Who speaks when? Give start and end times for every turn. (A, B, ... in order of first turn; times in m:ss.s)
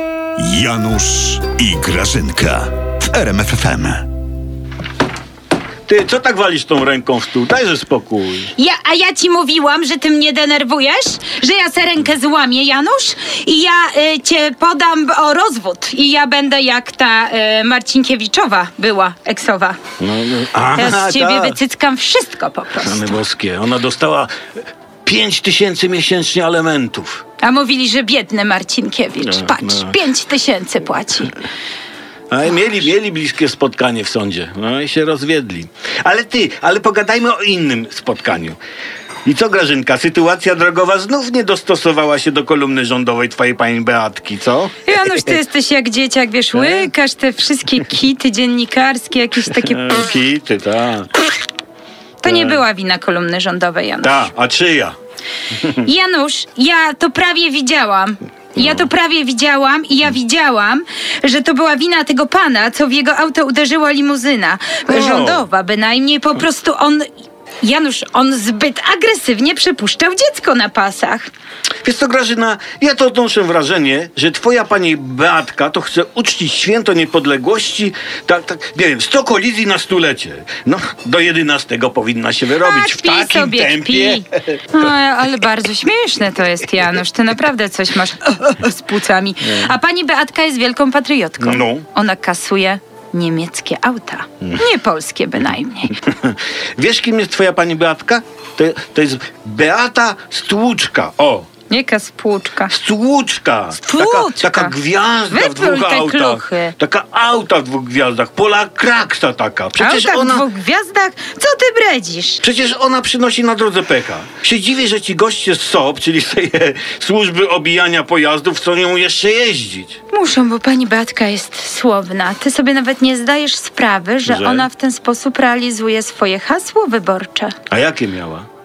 0:00.4-0:04.0 A
0:05.9-0:08.5 B
0:08.6-0:19.8 C
0:20.0-0:21.6 B
0:20.7-0:23.2 C
0:22.8-0:24.3 B
0:25.0-0:27.2 B
0:27.4-0:31.4 C
0:29.2-0:30.0 B
0:32.3-0:38.6 B
0:39.2-0:45.4 B
0:44.9-0:50.0 C
0:46.5-0:46.9 B
0:49.4-0:51.1 B
0:52.2-0:54.3 C
0:52.2-0:52.6 B
0:54.0-0:54.9 B
0:55.6-0:55.9 B
0:55.8-1:07.1 C
0:58.6-0:58.9 B
1:04.9-1:05.5 B
1:07.6-1:11.3 C
1:11.8-1:24.8 B
1:22.6-1:35.9 C
1:31.4-1:31.9 B
1:36.0-1:41.5 B
1:41.7-1:42.7 C
1:42.7-1:50.5 B
1:43.8-1:44.7 C
1:45.3-1:46.7 C
1:49.8-1:52.4 C
1:52.4-2:00.0 B
2:00.1-2:07.5 C
2:04.2-2:04.7 B
2:07.7-2:08.5 B